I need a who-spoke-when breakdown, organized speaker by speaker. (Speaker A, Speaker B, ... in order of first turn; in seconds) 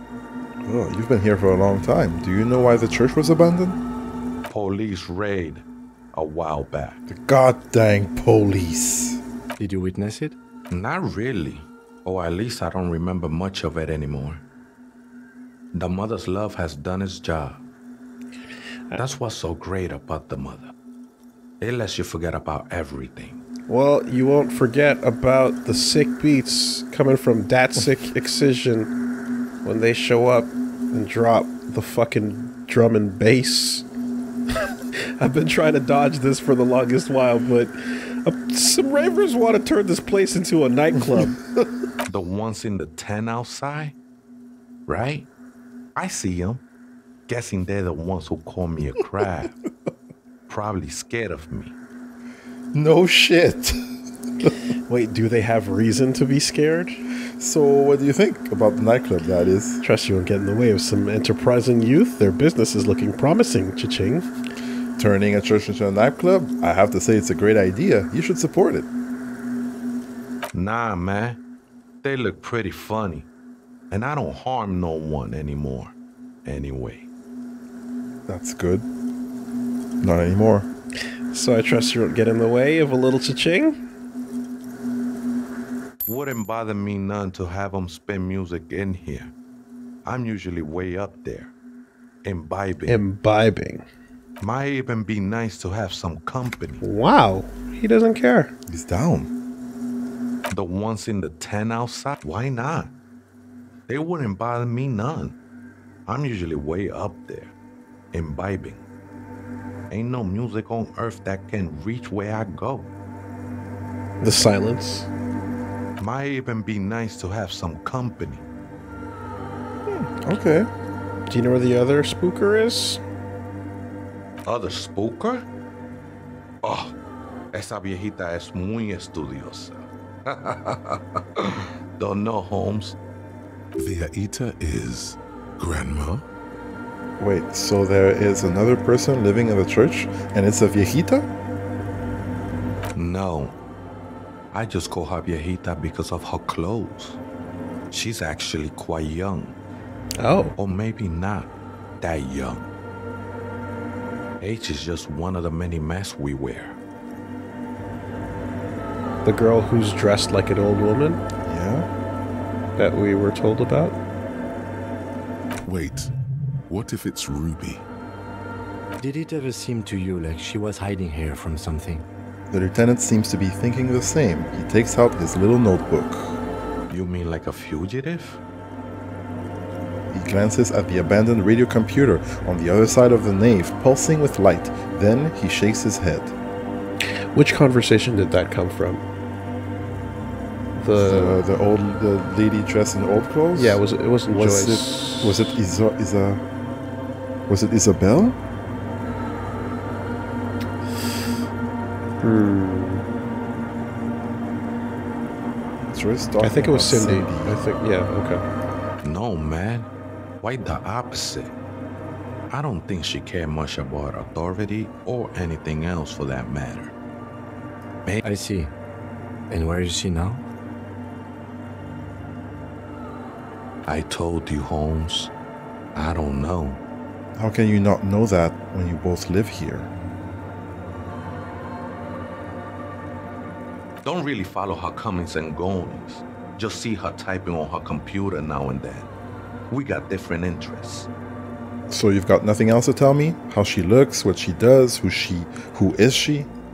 Speaker A: 0.6-3.8, 7.1-9.2, 52.7-53.8, 57.4-59.8, 65.0-68.9, 78.3-78.8, 80.0-80.7, 98.7-99.3, 119.9-120.7, 137.2-141.3, 161.4-161.9, 172.5-176.4, 180.1-186.3, 190.9-196.4, 197.5-198.4, 205.9-207.6, 227.4-229.9, 241.9-246.5
Speaker B: 4.5-7.0, 10.7-14.4, 15.7-17.6, 18.9-20.7, 21.6-23.4, 42.1-44.0, 44.9-45.3, 45.9-46.6, 47.3-49.5, 50.5-51.7, 70.5-71.4, 72.0-73.3, 73.9-77.1, 86.0-89.3, 90.0-91.5, 92.2-93.0, 94.4-96.8, 100.5-102.9, 103.9-105.3, 106.1-107.5, 108.1-108.8, 109.9-112.9, 116.0-118.4, 124.4-125.5, 126.6-127.0, 127.5-133.0, 142.9-143.6, 144.5-147.2, 147.9-149.6, 150.6-152.7, 154.4-156.8, 176.9-178.4, 209.0-209.9, 210.4-211.5, 212.5-216.9, 223.8-225.3, 225.9-226.8, 234.0-239.1, 239.7-241.1
Speaker C: 9.6-10.4, 169.0-172.1, 218.2-218.7, 219.5-220.4
Speaker D: 23.7-28.9, 29.6-33.8, 35.2-41.4, 54.9-57.0, 59.8-64.2, 81.3-83.8, 92.9-93.8, 96.8-98.5, 114.2-115.1, 121.3-123.0, 150.2-150.5, 159.2-161.2, 162.8-164.0, 187.3-189.0, 190.7-191.4, 193.5-195.6, 202.2-203.1, 206.4-208.4
Speaker E: 133.8-136.2, 165.6-166.1, 166.7-167.8